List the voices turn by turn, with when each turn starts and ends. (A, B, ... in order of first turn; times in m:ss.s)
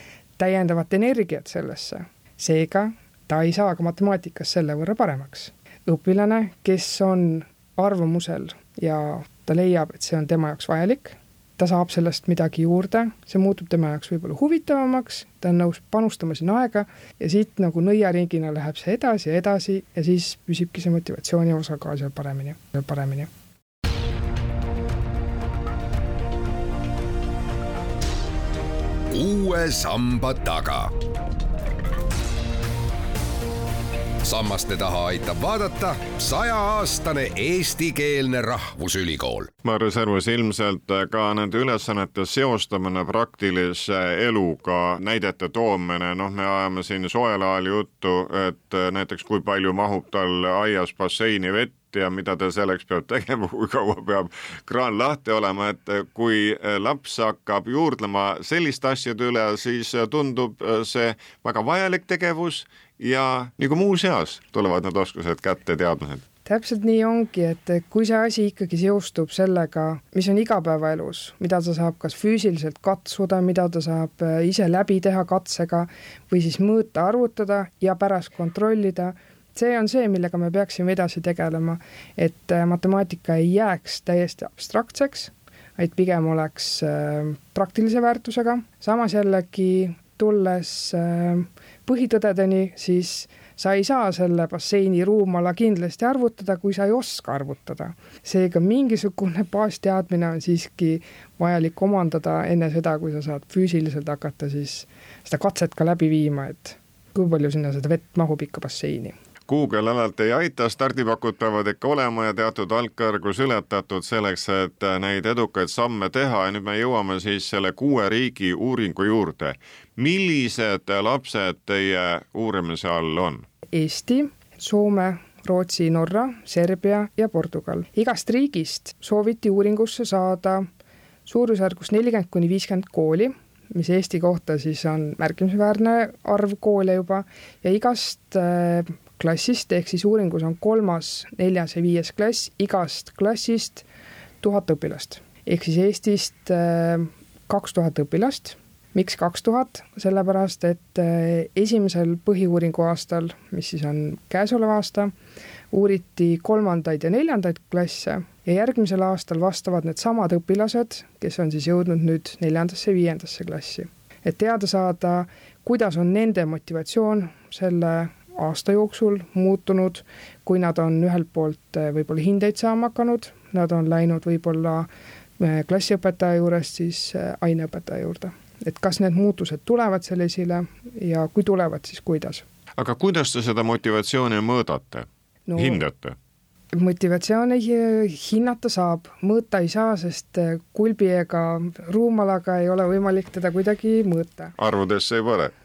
0:00.4-0:23.3 A
0:29.1-0:30.9 B
0:34.2-0:39.5 B
0:39.6-1:06.2 C
1:06.4-1:49.2 A
1:49.5-2:03.4 C
2:03.7-2:10.7 A
2:11.2-2:23.9 A
2:24.4-2:35.1 A
2:35.7-3:02.4 A
3:02.8-3:06.2 C
3:05.5-3:05.8 A
3:06.7-3:14.6 A
3:14.6-3:15.5 C